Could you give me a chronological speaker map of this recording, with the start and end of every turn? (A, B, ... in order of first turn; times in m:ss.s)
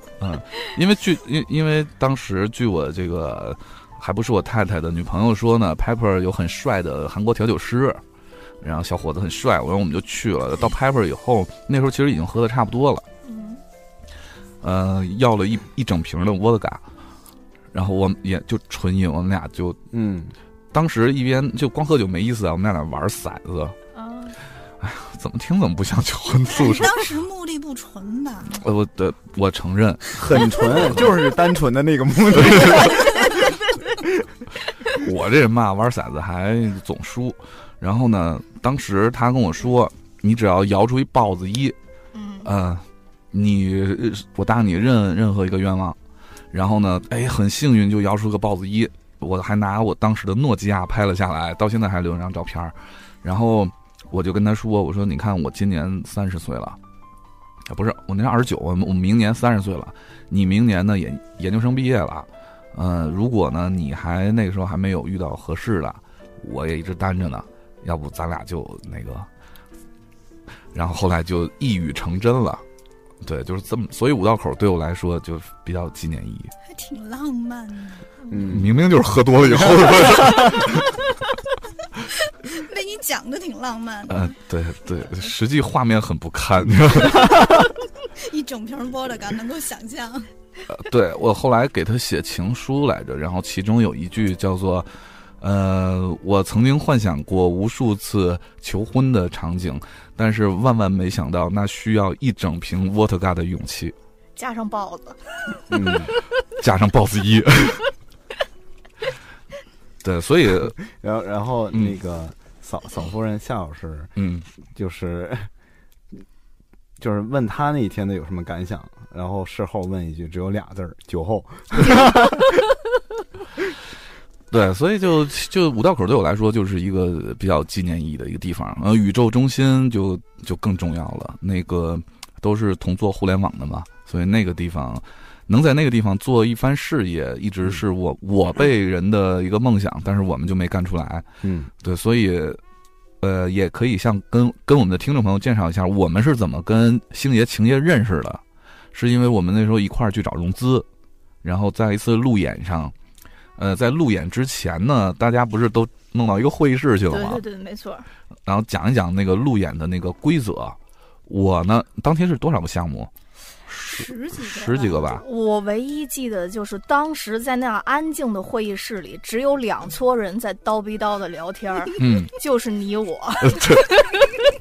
0:00.2-0:08.0 A
0:08.6-0:13.0 A
0:13.2-0:13.6 B
0:14.6-0:16.8 A
0:17.7-0:19.8 A
0:19.9-0:20.3 C
0:20.7-0:23.7 A
0:23.9-0:24.4 B
0:24.8-0:27.1 A
0:26.5-0:28.6 D
0:28.5-0:31.0 A
0:30.2-0:33.2 C
0:32.4-0:32.9 A
0:34.9-0:41.8 A
0:42.1-0:42.5 B
0:42.4-0:46.0 A
0:46.5-0:56.8 A
0:57.7-1:09.3 A
1:10.7-1:12.6 A
1:13.2-1:16.5 A
1:16.6-1:18.0 D
1:18.3-1:18.7 C
1:18.5-1:20.9 A
1:19.6-1:20.7 C
1:22.3-1:24.3 D
1:24.1-1:27.7 A
1:28.2-1:30.3 D
1:30.7-1:34.9 A
1:35.4-1:43.9 A
1:44.4-1:45.2 B
1:45.7-1:46.1 C
1:46.6-1:47.9 A
1:50.0-1:50.8 A
1:50.8-1:54.1 C
1:54.2-1:54.4 A
1:54.7-1:55.5 C
1:57.0-2:02.6 C
2:04.5-2:21.3 A
2:21.4-2:21.7 C
2:21.8-2:22.6 A
2:23.2-2:28.4 A
2:28.9-2:30.9 A
2:31.4-2:32.9 A
2:33.6-2:37.4 A
2:37.1-2:38.0 B
2:38.4-2:43.1 A
2:43.7-2:45.2 A
2:43.9-2:45.0 D
2:44.7-2:54.0 B
2:52.0-2:52.3 A
2:53.4-2:54.2 A